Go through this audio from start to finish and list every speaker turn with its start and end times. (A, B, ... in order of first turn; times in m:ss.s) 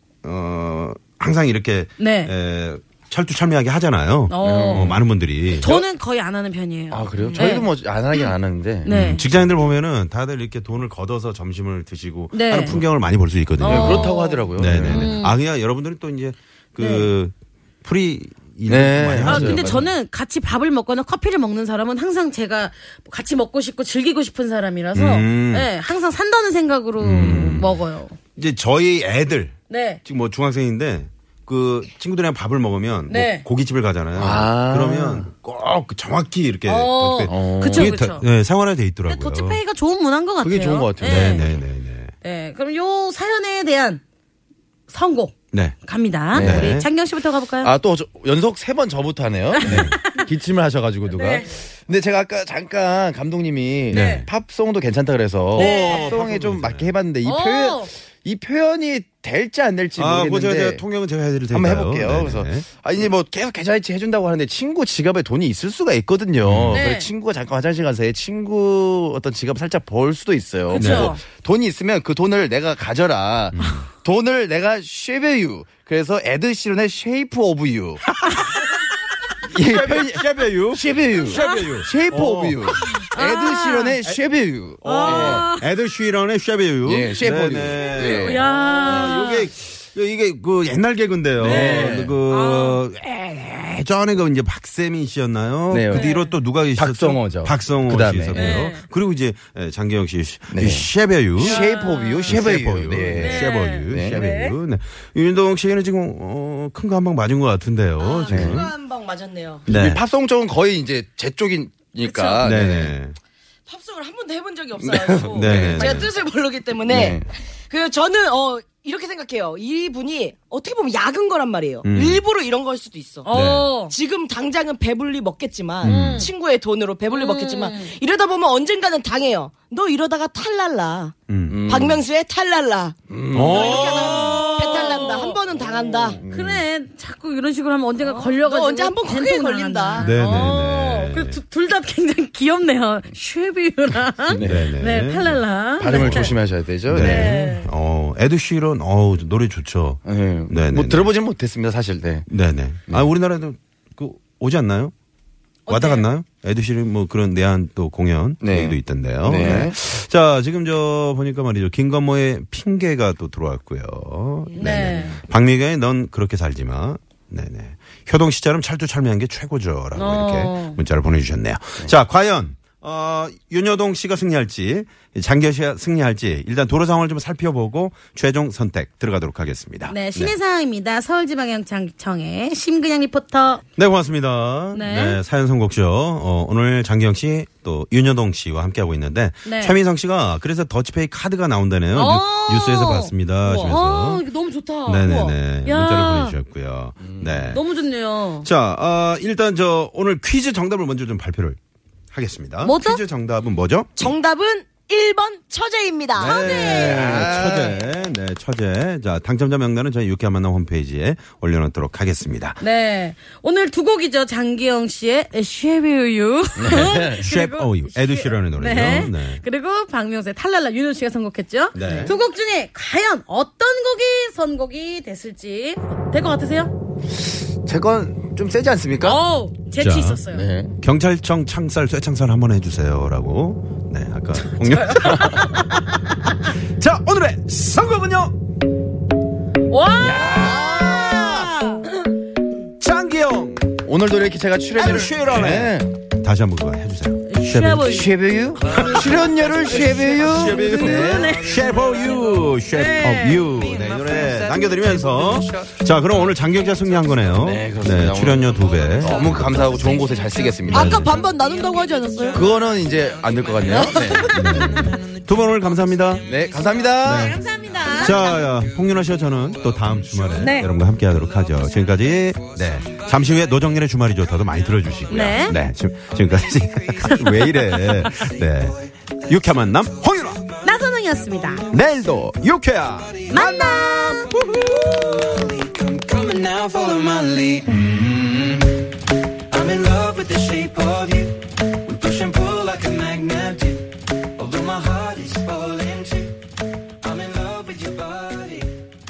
0:00.2-0:05.8 A
0:02.0-0:02.3 B
0:04.3-0:05.0 B
0:04.4-0:05.0 C
0:05.5-0:08.3 B
0:06.9-0:08.9 C
0:07.2-0:07.6 D
0:08.8-0:09.3 B
0:08.9-0:19.9 A
0:12.3-0:12.8 B
0:13.6-0:15.4 B
0:13.6-0:15.1 C
0:16.8-0:17.1 B
0:18.7-0:19.9 C
0:19.2-0:28.2 B
0:24.9-0:25.7 A
0:27.0-0:27.7 A
0:27.2-0:27.6 C
0:28.4-0:39.6 A
0:29.7-0:30.0 B
0:33.1-0:33.4 B
0:34.2-0:35.3 C
0:36.6-0:38.3 B
0:37.3-0:38.0 C
0:39.1-0:41.5 B
0:40.4-0:41.5 C
0:41.0-0:42.1 A
0:42.2-0:44.0 B
0:44.9-0:47.7 B
0:45.5-0:45.8 A
0:46.3-0:46.9 A
0:46.3-0:46.8 C
0:47.6-1:00.8 C
0:49.6-0:50.3 B
0:49.6-0:50.0 A
0:51.1-0:51.5 B
0:53.9-0:54.3 B
0:53.9-0:54.3 A
0:55.5-0:56.2 B
0:55.6-0:57.0 A
0:57.2-0:57.9 B
1:00.0-1:02.7 A
1:01.5-1:18.1 C
1:06.4-1:06.8 A
1:06.7-1:07.1 B
1:10.7-1:11.2 B
1:10.8-1:11.1 A
1:13.5-1:13.9 A
1:19.5-1:23.1 A
1:19.5-1:25.4 C
1:21.3-1:21.8 B
1:22.8-1:24.0 B
1:24.8-1:25.7 B
1:24.8-1:41.6 A
1:26.8-1:28.4 C
1:27.8-1:29.5 B
1:31.4-1:32.2 C
1:31.4-1:32.8 B
1:35.7-1:36.1 C
1:35.9-1:36.4 B
1:36.8-1:38.6 C
1:38.3-1:38.8 B
1:40.5-1:44.2 C
1:41.4-1:42.4 B
1:42.3-1:48.7 A
1:43.1-1:44.6 B
1:48.0-1:49.7 D
1:48.3-1:48.7 C
1:49.7-1:50.0 A
1:49.7-1:53.0 C
1:52.0-1:52.5 D
1:52.4-1:53.2 A
1:53.7-2:11.1 D
1:54.8-1:56.0 C
1:55.3-1:56.1 A
1:56.8-1:57.2 C
2:01.8-2:02.2 A
2:03.2-2:04.0 B
2:03.3-2:03.7 A
2:05.8-2:06.3 A
2:05.8-2:06.3 B
2:07.1-2:07.9 B
2:11.3-2:11.7 A
2:11.5-2:12.0 C
2:11.6-2:16.2 D
2:13.1-2:13.7 C
2:13.3-2:15.1 A
2:14.1-2:15.4 B
2:15.5-2:16.6 C
2:16.3-2:26.4 B
2:18.0-2:20.2 D
2:20.0-2:21.4 A
2:24.3-2:24.7 C
2:24.4-2:26.4 A
2:25.8-2:27.4 C
2:26.9-2:31.1 A
2:27.0-2:27.7 B
2:30.0-2:32.3 C
2:32.3-2:34.9 A
2:35.7-2:36.0 B
2:35.7-3:00.4 A
2:38.4-2:39.8 C
2:44.5-2:45.1 D
2:44.6-2:45.2 B
2:49.9-2:50.8 B
2:59.9-3:03.6 B
3:03.8-3:14.2 A
3:04.7-3:05.2 B
3:09.4-3:09.8 B
3:11.9-3:16.4 B
3:13.5-3:13.8 D
3:14.9-3:17.6 A
3:17.0-3:17.3 C
3:17.5-3:18.5 B
3:18.4-3:21.6 A
3:22.1-3:24.0 A
3:22.6-3:23.0 B
3:24.0-3:26.4 D
3:26.1-3:32.6 A
3:26.2-3:27.3 B
3:26.6-3:27.8 C
3:32.6-3:46.7 B
3:36.6-3:37.2 C
3:37.2-3:39.4 A
3:41.8-3:42.2 A
3:41.8-3:42.1 D
3:47.3-3:49.2 C
3:49.0-3:50.5 B
3:49.8-3:50.2 A
3:50.3-3:50.8 C
3:50.8-3:55.6 A
3:54.5-3:55.7 B
3:56.7-3:58.3 A
3:59.7-4:01.8 B
4:00.0-4:00.8 C
4:00.2-4:01.5 A
4:02.8-4:03.8 A
4:03.8-4:06.0 C
4:04.8-4:08.0 A
4:07.2-4:08.2 B
4:07.8-4:11.4 C
4:08.6-4:19.7 A
4:08.7-4:11.9 B
4:09.3-4:09.8 E
4:11.2-4:12.2 E
4:12.7-4:13.5 B
4:13.6-4:15.7 E
4:17.4-4:21.0 C
4:18.7-4:19.7 E
4:19.7-4:20.0 D
4:20.4-4:21.1 E
4:20.6-4:22.5 D
4:20.7-4:21.1 A
4:20.7-4:21.1 B
4:21.8-4:22.4 B
4:22.3-4:24.4 C
4:22.4-4:25.0 E
4:23.7-4:24.5 D
4:24.2-4:26.3 A
4:26.2-4:26.8 E
4:26.2-4:27.4 C
4:27.0-4:40.4 A
4:27.0-4:28.4 B
4:29.6-4:30.6 E
4:30.4-4:30.7 B
4:32.8-4:33.1 E
4:35.1-4:35.6 B
4:37.0-4:38.1 B
4:40.6-4:41.7 B
4:41.7-4:45.4 A
4:43.3-4:44.3 B
4:45.7-4:48.6 E
4:49.5-4:51.3 E
4:51.9-4:53.8 E
4:54.4-4:56.3 E
4:57.0-4:58.7 E